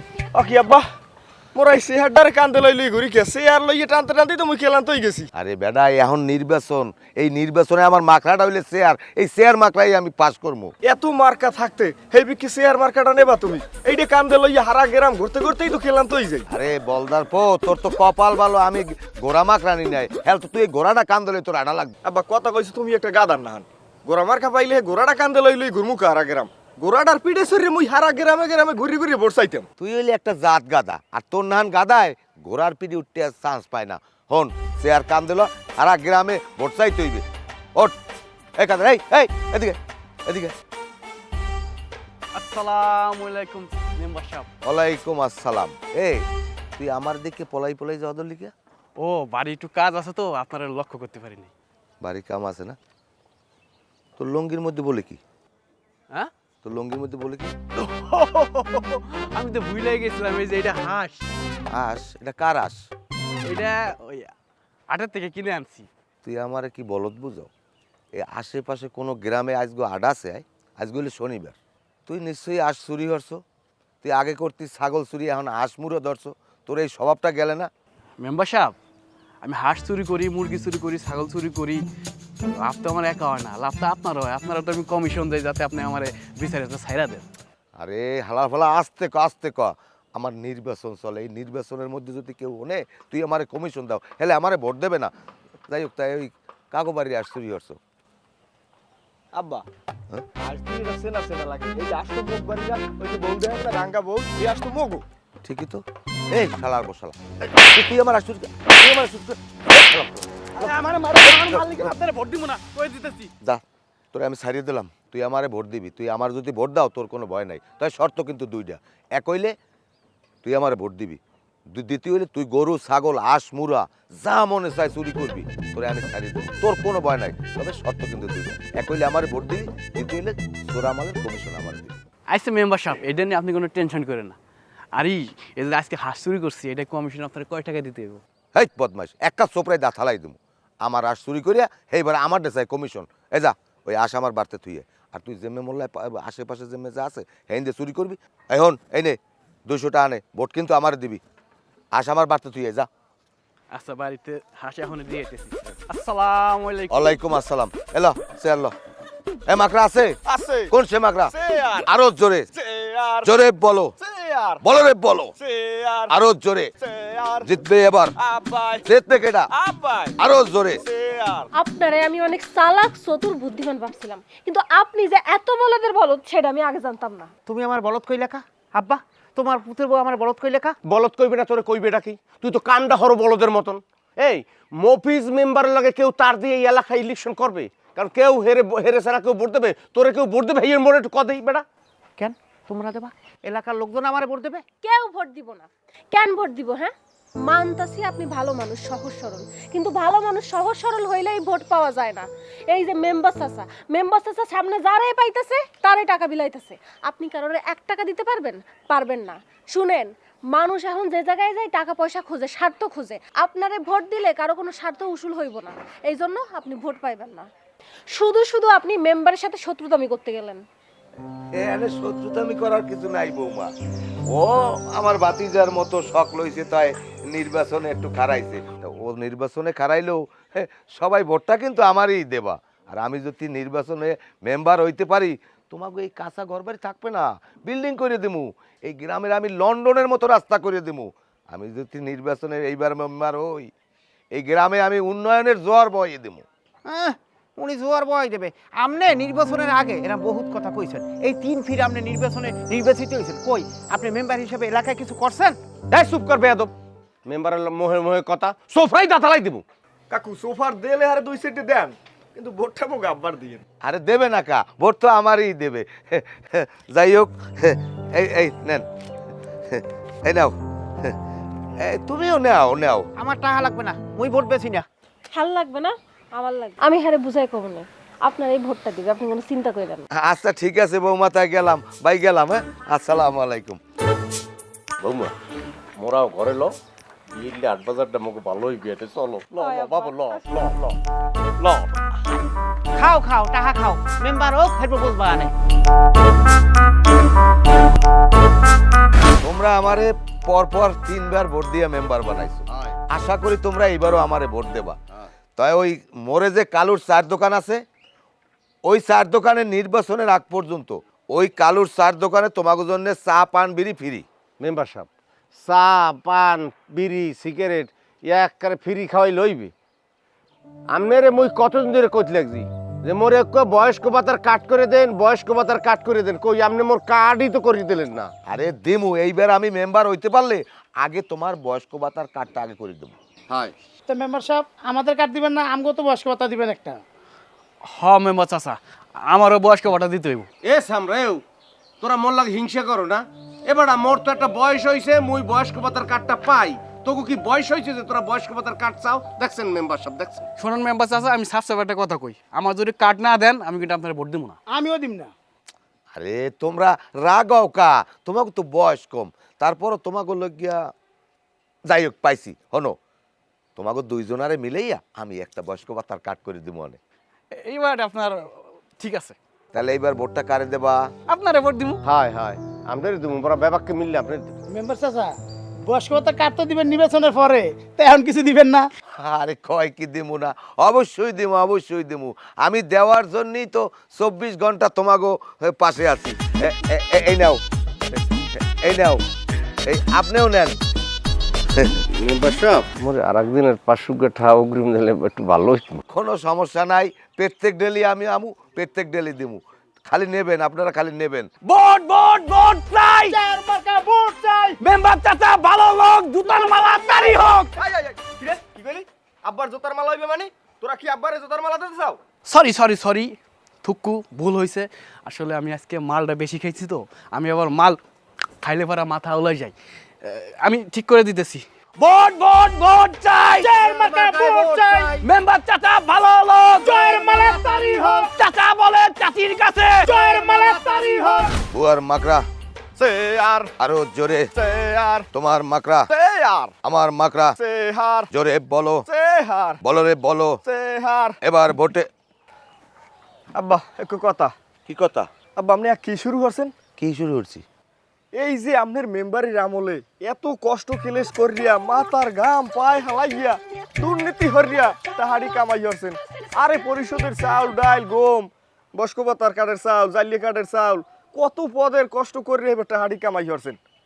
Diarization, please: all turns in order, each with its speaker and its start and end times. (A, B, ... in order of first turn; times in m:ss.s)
0:00.3-0:00.8 A
0:01.5-0:05.3 A
0:05.3-0:10.7 B
0:10.8-0:16.5 A
0:16.5-0:21.9 B
0:22.0-0:29.6 A
0:29.8-0:37.2 B
0:38.6-0:40.5 B
0:42.3-0:44.5 C
0:44.6-0:46.2 B
0:46.8-0:48.5 B
0:49.0-0:51.5 C
0:52.0-0:52.8 B
0:54.2-0:55.2 B
0:56.6-0:57.5 B
0:57.8-1:01.2 C
1:01.7-1:02.8 B
1:03.4-1:04.3 C
1:04.9-1:05.9 C
1:06.2-1:07.5 B
1:08.2-1:13.4 B
1:14.0-1:17.7 B
1:18.2-1:18.7 C
1:19.4-1:21.8 C
1:22.5-1:27.2 C
1:27.8-1:35.1 B
1:35.7-1:37.8 B
1:39.3-1:39.6 A
1:40.4-1:45.0 A
1:45.4-1:50.2 B
1:50.6-1:52.0 D
1:50.6-1:53.3 C
1:53.4-1:59.5 B
2:00.4-2:01.2 B
2:01.7-2:12.0 B
2:12.3-2:14.4 C
2:14.9-2:18.2 C
2:18.5-2:31.2 B
2:31.9-2:32.9 B
2:33.7-2:37.2 C
2:36.9-2:38.7 B
2:39.5-2:40.2 B
2:40.2-2:40.7 A
2:40.7-2:41.3 B
2:41.3-2:41.9 A
2:41.8-2:42.5 B
2:42.5-2:43.3 A
2:43.2-2:43.9 B
2:44.0-2:44.6 A
2:44.6-2:45.3 B
2:45.4-2:46.1 A
2:46.1-2:46.7 B
2:46.8-2:47.5 A
2:47.4-2:48.1 B
2:48.2-2:48.8 A
2:48.8-2:49.5 B
2:49.5-2:50.2 A
2:50.2-2:50.8 B
2:50.8-2:51.5 A
2:51.6-2:57.3 E
2:57.4-3:00.8 F
3:00.9-3:11.6 G
3:12.2-3:14.6 F
3:14.8-3:16.9 E
3:17.4-3:37.5 E
3:38.1-3:40.6 E
3:41.5-3:43.7 B
3:44.3-4:03.7 B
4:04.3-4:06.4 B
4:06.8-4:15.6 F
4:15.9-4:16.7 G
4:17.2-4:19.6 G
4:20.1-4:23.6 A
4:23.8-4:28.8 B
4:29.7-4:31.2 B
4:31.8-4:33.1 B
4:33.2-4:34.8 F
4:35.3-4:40.1 E
4:40.1-4:43.8 B
4:45.0-4:45.3 G
4:46.0-4:46.7 G
4:47.4-4:51.0 G
4:49.6-4:50.5 E
4:51.6-4:52.0 G
4:52.9-4:55.5 F
4:59.4-5:05.0 B
5:05.6-5:07.8 B
5:08.8-5:14.2 B
5:14.6-5:19.7 G
5:20.9-5:28.3 G
5:28.5-5:33.1 B
5:34.1-5:37.0 D
5:37.8-5:40.5 C
5:40.6-5:41.4 G
5:42.0-5:50.4 G
5:50.6-5:54.6 C
5:54.7-5:55.3 D
5:56.1-6:00.9 B
6:01.9-6:03.0 B
6:03.8-6:07.0 B
6:07.5-6:09.4 C
6:09.7-6:11.1 B
6:11.3-6:12.0 C
6:12.0-6:14.6 G
6:14.7-6:15.3 D
6:15.8-6:18.9 D
6:19.2-6:27.6 B
6:28.1-6:29.2 B
6:29.8-6:30.8 B
6:32.1-6:36.0 G
6:36.1-6:41.5 B
6:41.6-6:43.4 C
6:43.3-6:44.8 D
6:44.8-6:47.7 C
6:46.5-6:47.6 D
6:47.8-6:52.2 A
6:52.4-6:58.0 C
6:58.6-7:04.0 C
7:03.6-7:05.2 D
7:04.6-7:07.2 C
7:06.8-7:08.6 D
7:08.4-7:10.1 C
7:10.0-7:11.5 D
7:11.7-7:12.4 B
7:13.0-7:13.7 A
7:13.8-7:14.5 B
7:14.5-7:15.3 A
7:15.3-7:16.1 B
7:16.1-7:16.8 A
7:16.8-7:17.6 B
7:17.6-7:18.3 A
7:18.3-7:19.0 B
7:19.1-7:19.8 A
7:19.8-7:20.6 B
7:20.6-7:21.4 A
7:21.4-7:22.1 B
7:23.5-7:24.5 A
7:24.9-7:25.3 B
7:25.5-7:26.7 A
7:27.0-7:27.6 B
7:28.3-7:43.8 A